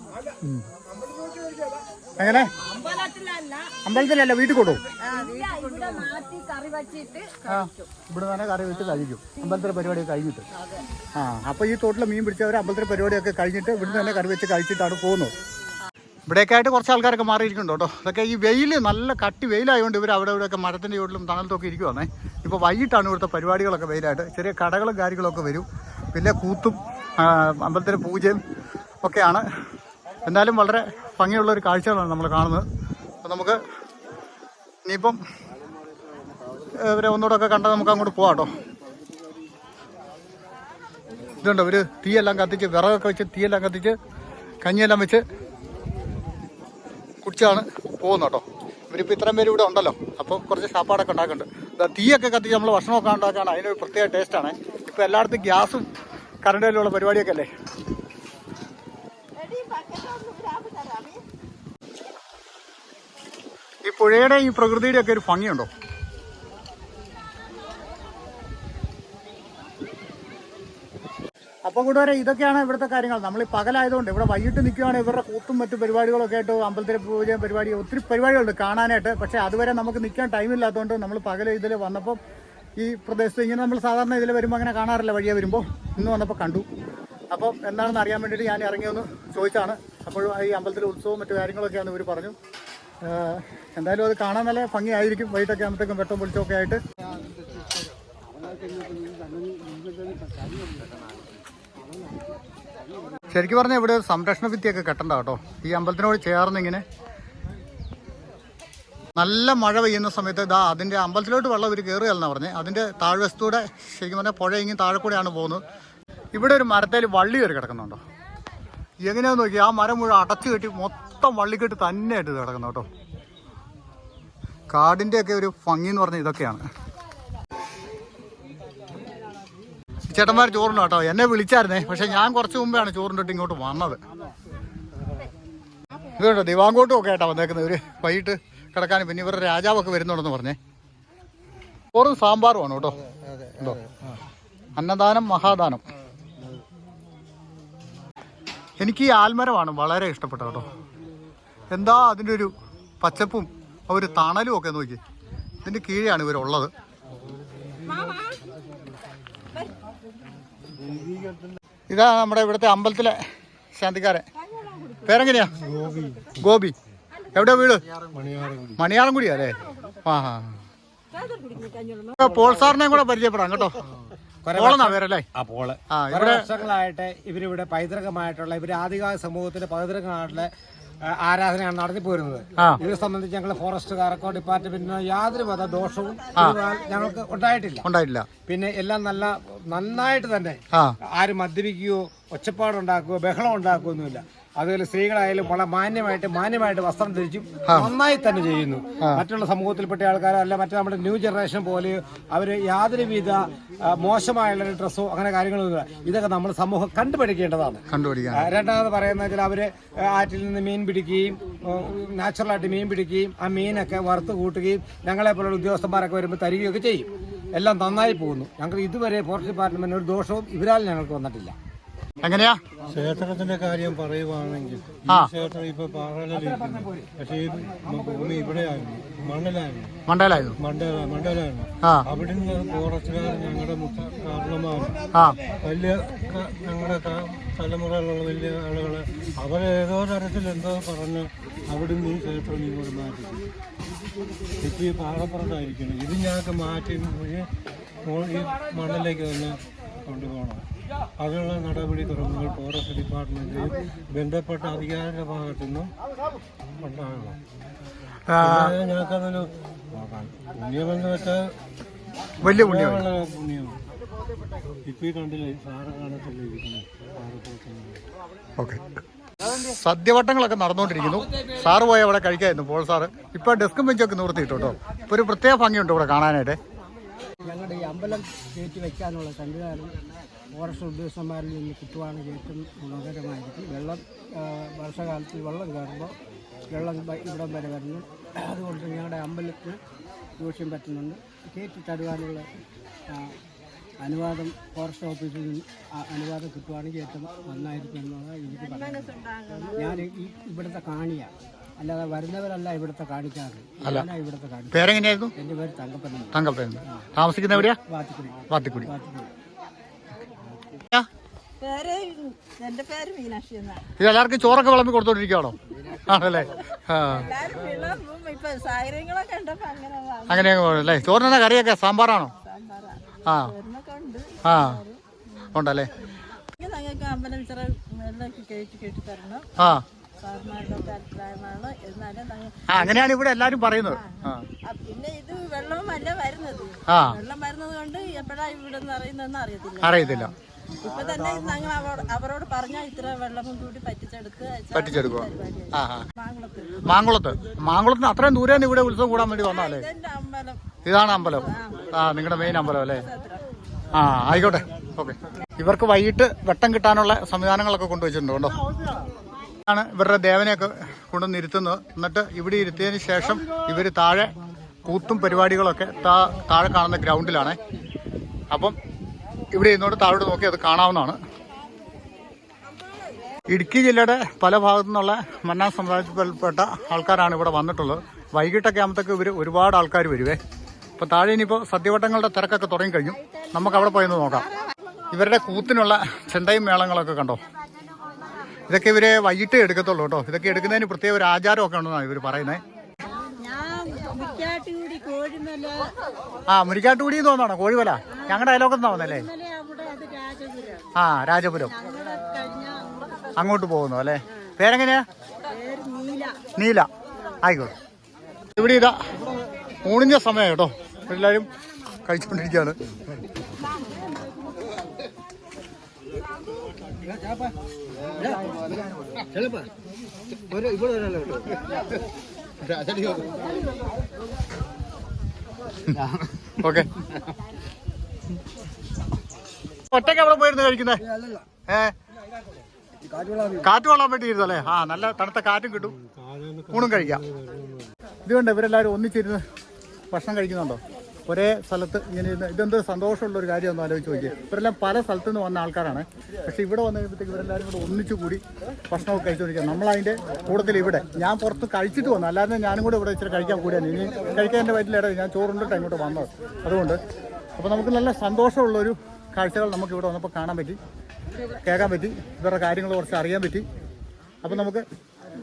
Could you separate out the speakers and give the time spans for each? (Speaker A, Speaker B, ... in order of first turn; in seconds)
Speaker A: 2.2-2.5, 3.8-4.8, 7.4-10.4, 11.1-15.3, 16.3-28.4, 29.0-29.4, 30.2-32.6, 33.2-33.6, 34.8-35.2, 36.7-38.6, 41.4-44.0, 44.6-45.2, 47.2-55.9, 56.4-57.5, 63.8-65.7, 71.7-82.2, 82.8-86.7, 87.3-92.3, 93.0-96.8, 103.3-106.8, 109.2-115.6, 116.3-118.0, 119.0-122.8, 124.7-126.6, 130.1-134.0, 136.2-140.6, 141.9-143.8, 144.8-145.8, 148.8-150.7, 151.7-155.0, 155.6-156.7, 161.9-163.2, 163.7-164.2, 165.1-165.5, 166.4-166.7, 167.3-167.8, 168.8-170.6, 172.2-173.8, 174.5-175.2, 175.9-176.5, 182.6-182.8, 187.8-188.3, 197.7-197.9, 207.9-208.5, 222.2-222.6, 230.1-230.6, 231.8-232.1, 235.1-235.4, 258.3-258.7, 262.4-263.1, 269.6-276.6, 303.8-304.1, 304.7-305.3, 306.3-307.8, 308.5-308.9, 314.0-317.3, 320.3-322.3, 323.3-323.5, 324.4-324.8, 325.5-325.9, 332.7-334.4, 336.9-337.2, 339.8-340.3, 344.7-346.1, 346.8-349.9, 350.8-353.0, 353.9-358.6, 359.6-364.3, 364.9-367.6, 368.5-368.8, 369.5-371.2, 373.5-380.4, 381.0-384.5, 385.1-387.4, 388.7-392.6, 396.5-399.3, 400.9-401.8, 403.4-405.0, 406.6-406.9, 407.4-407.7, 408.5-409.0, 409.8-411.5, 412.1-412.7, 426.6-426.9, 429.9-431.0, 431.7-431.9, 433.6-435.9, 436.7-437.2, 438.2-439.4, 440.1-457.0, 457.6-460.8, 461.6-463.6, 464.4-464.8
Speaker B: 59.4-61.2, 157.8-158.4, 164.4-166.1, 171.1-172.7, 298.6-300.0, 311.6-313.8, 317.1-321.1, 322.4-325.0, 326.5-333.1, 334.5-346.8, 349.4-353.4
Speaker C: 157.4-158.0, 160.8-161.4, 165.5-166.3, 168.0-168.8, 222.9-229.9, 230.6-235.0, 235.5-243.4, 244.6-247.5, 248.0-250.7, 251.2-255.9, 256.8-257.4, 258.4-261.6, 262.4-263.8, 264.8-268.0, 435.9-437.9
Speaker D: 174.4-180.5, 181.0-187.9, 188.4-221.5, 226.3-227.1
Speaker E: 277.4-280.0, 280.5-286.1, 286.7-289.8, 290.4-292.5, 293.1-293.4, 294.0-306.4, 306.9-309.3